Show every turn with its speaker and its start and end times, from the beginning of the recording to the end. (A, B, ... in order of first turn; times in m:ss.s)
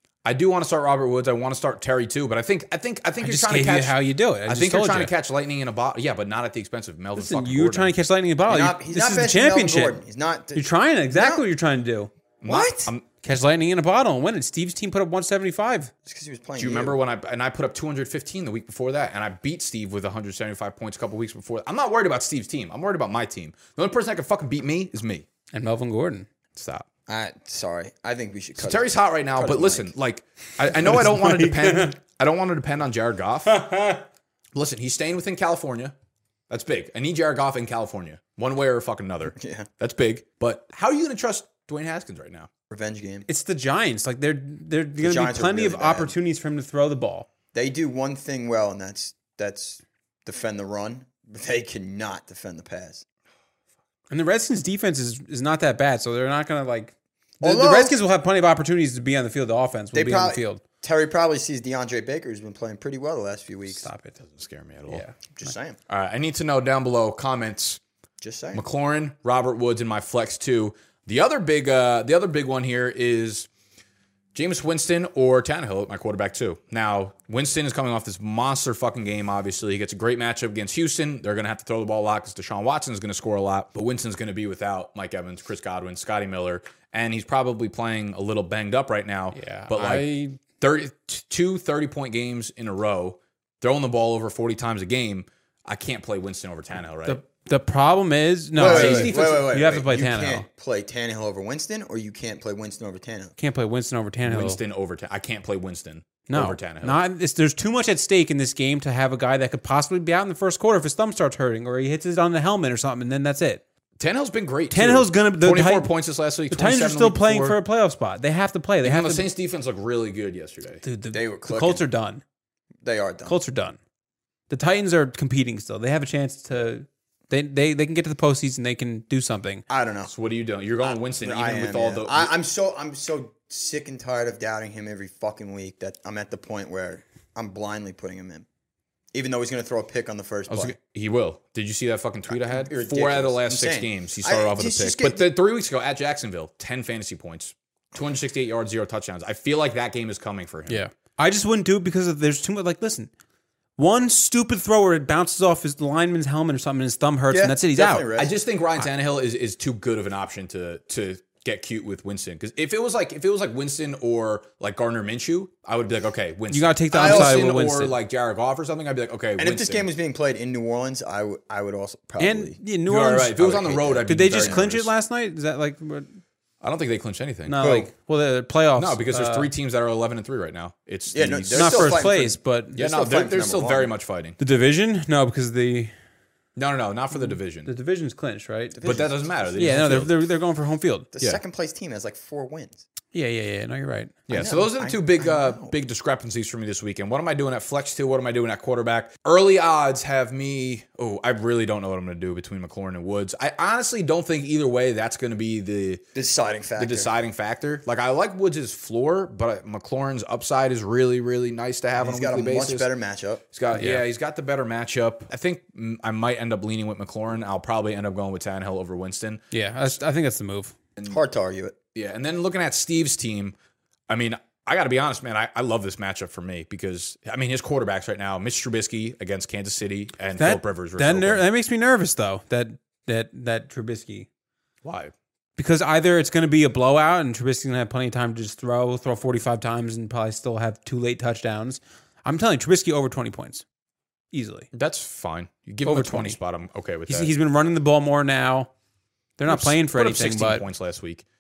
0:00.2-0:08.0 A
0:03.2-0:05.1 B
0:07.2-0:10.0 B
0:08.5-0:11.4 C
0:10.5-0:12.1 B
0:12.4-0:13.0 A
0:12.5-0:12.9 C
0:13.2-0:15.9 B
0:16.1-0:17.0 C
0:16.6-0:25.3 A
0:25.5-0:26.3 B
0:26.5-0:26.9 A
0:27.1-0:29.9 C
0:28.6-0:33.7 A
0:30.9-0:31.9 B
0:33.5-0:34.0 B
0:34.5-0:36.0 A
0:36.5-0:42.5 A
0:39.4-0:39.7 C
0:42.7-0:43.3 C
0:43.3-0:47.3 B
0:45.0-0:46.2 C
0:47.5-0:53.0 C
0:54.1-1:00.6 B
0:57.4-0:58.0 C
0:59.9-1:03.9 C
1:03.7-1:04.2 B
1:04.2-1:05.0 A
1:04.9-1:05.2 B
1:05.3-1:05.8 C
1:05.9-1:07.8 A
1:08.2-1:08.6 C
1:08.5-1:13.5 A
1:14.3-1:37.2 A
1:29.3-1:30.4 B
1:37.0-1:40.5 B
1:38.6-1:43.4 C
1:38.6-1:39.5 A
1:43.4-1:44.6 B
1:44.2-1:47.0 A
1:46.3-1:53.6 B
1:54.0-1:57.6 A
1:54.7-1:55.9 B
1:56.5-1:59.3 B
1:58.8-2:00.8 A
2:00.8-2:02.2 B
2:01.1-2:01.8 C
2:02.8-2:03.4 C
2:03.3-2:03.8 B
2:04.5-2:09.6 B
2:09.7-2:10.1 C
2:10.1-2:12.3 A
2:10.8-2:18.5 C
2:19.1-2:20.8 C
2:20.5-2:30.8 A
2:22.3-2:25.3 C
2:30.7-2:33.1 B
2:33.8-2:38.1 B
2:37.3-2:38.3 C
2:38.2-2:49.9 A
2:46.5-2:48.0 B
2:46.9-2:47.5 C
2:49.4-2:52.6 C
2:52.2-2:56.1 B
2:52.9-2:54.9 A
2:53.4-2:54.6 C
2:56.6-2:57.7 A
2:57.5-2:59.5 B
2:57.6-2:57.9 C
2:58.8-3:02.1 A
3:01.1-3:03.9 C
3:01.5-3:02.8 B
3:02.8-3:04.4 A
3:04.4-3:05.9 B
3:06.6-3:07.7 A
3:07.3-3:08.8 B
3:08.8-3:09.8 C
3:08.8-3:10.1 A
3:09.6-3:11.1 B
3:11.1-3:12.8 C
3:13.1-3:14.2 B
3:14.3-3:26.0 A
3:14.3-3:15.7 C
3:26.2-3:27.1 C
3:26.8-3:32.9 A
3:32.0-3:33.4 C
3:33.5-3:39.4 A
3:33.7-3:34.0 B
3:39.5-3:40.8 B
3:41.1-3:41.8 C
3:42.0-3:43.6 A
3:44.1-3:51.4 A
3:50.4-3:54.3 B
3:54.8-3:55.1 A
3:55.6-4:03.6 B
4:04.3-4:04.7 B
4:04.7-4:07.3 A
4:05.8-4:06.4 B
4:07.1-4:08.7 B
4:09.4-4:10.6 B
4:09.5-4:11.2 A